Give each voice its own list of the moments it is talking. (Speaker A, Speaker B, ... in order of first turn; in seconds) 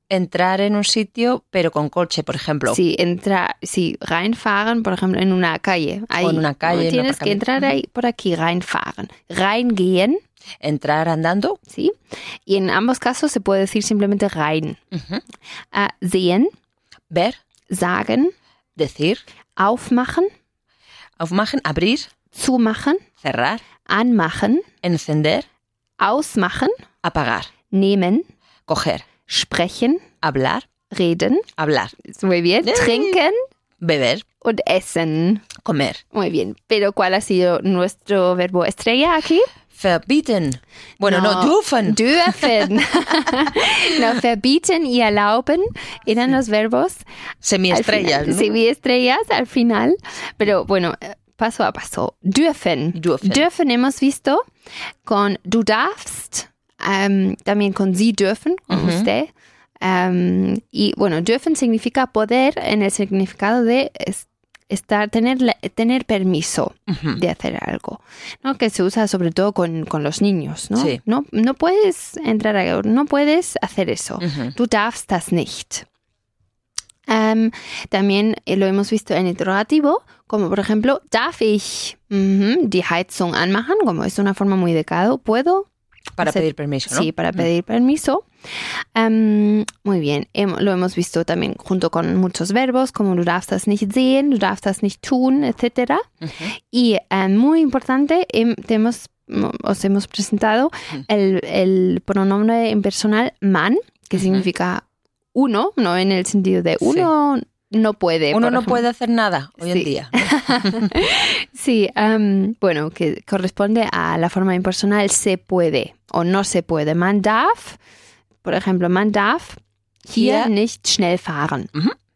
Speaker A: 0.1-2.8, 6.2-7.7, 10.6-11.6, 14.9-15.2, 17.1-17.4, 18.8-19.2, 21.2-22.1, 23.2-23.6, 24.8-25.4, 27.0-27.5, 28.7-29.0, 30.2-30.6, 31.6-31.9, 32.6-33.1, 33.8-34.2, 35.6-36.0, 39.7-42.6, 47.4-48.5, 52.9-53.4, 58.7-59.1, 66.9-67.2, 74.2-74.5, 86.2-87.4, 96.2-96.5, 104.2-104.4, 106.8-107.1, 108.3-110.9, 120.2-120.5
Speaker B: 2.7-10.2, 11.7-14.8, 15.7-16.5, 17.7-18.3, 19.6-20.3, 22.3-23.1, 23.9-24.7, 26.0-26.7, 27.7-28.2, 29.3-30.0, 30.9-31.5, 32.0-33.4, 34.4-35.5, 36.1-39.5, 41.0-47.0, 47.7-54.4, 55.0-59.3, 59.8-75.8, 77.1-85.7, 86.2-108.8, 109.6-117.8, 118.4-121.7